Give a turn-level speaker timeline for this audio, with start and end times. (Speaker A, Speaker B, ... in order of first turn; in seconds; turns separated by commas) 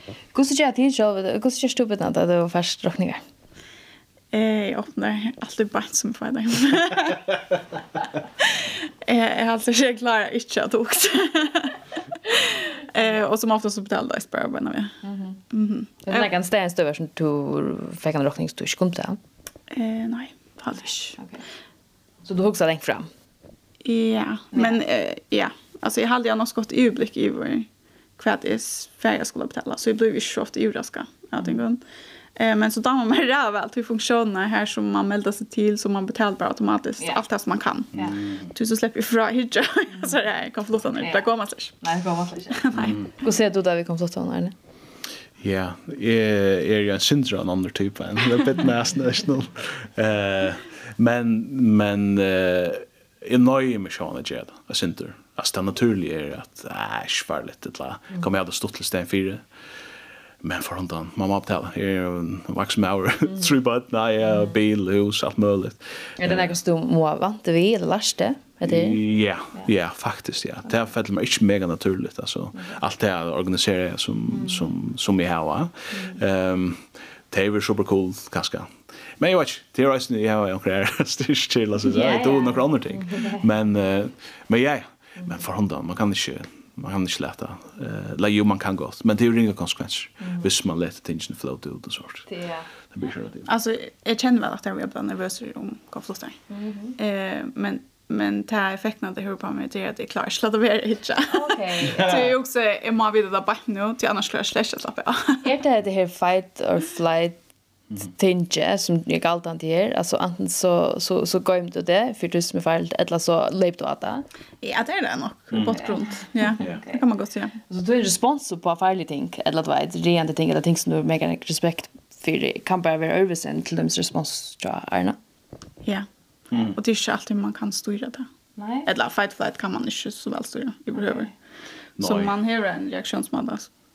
Speaker A: 0.3-3.2, Speaker B: 4.3-7.4, Speaker B: 8.4-15.0, Speaker A: 15.0-15.4, Speaker B: 15.5-16.3, Speaker A: 16.1-19.2, Speaker B: 19.7-21.2, Speaker A: 21.2-21.4, Speaker A: 22.2-23.1, Speaker B: 23.8-31.8, Speaker A: 24.5-24.8, Speaker B: 32.4-41.8, Speaker C: 37.9-38.5, Speaker A: 41.0-41.3, Speaker A: 41.8-44.5, Speaker B: 42.5-43.0, Speaker C: 42.7-43.1, Speaker C: 45.4-59.5, Speaker C: 60.4-66.5, Speaker A: 66.2-69.0, Speaker C: 68.7-92.3, Speaker A: 74.3-74.7, Speaker A: 75.9-76.2, Speaker A: 81.8-83.5, Speaker A: 92.3-92.7, Speaker C: 92.9-93.5, Speaker B: 93.5-96.4, Speaker A: 96.5-97.0, Speaker B: 97.0-105.5, Speaker A: 101.3-102.2, Speaker A: 105.4-107.4, Speaker A: 108.0-114.3, Speaker B: 114.6-117.6, Speaker C: 115.5-115.8, Speaker A: 115.8-117.0, Speaker A: 117.7-125.2, Speaker B: 125.8-128.3, Speaker C: 126.5-126.8, Speaker A: 128.6-128.9, Speaker B: 128.8-131.3, Speaker A: 131.0-131.3, Speaker C: 132.0-132.3, Speaker B: 132.0-133.7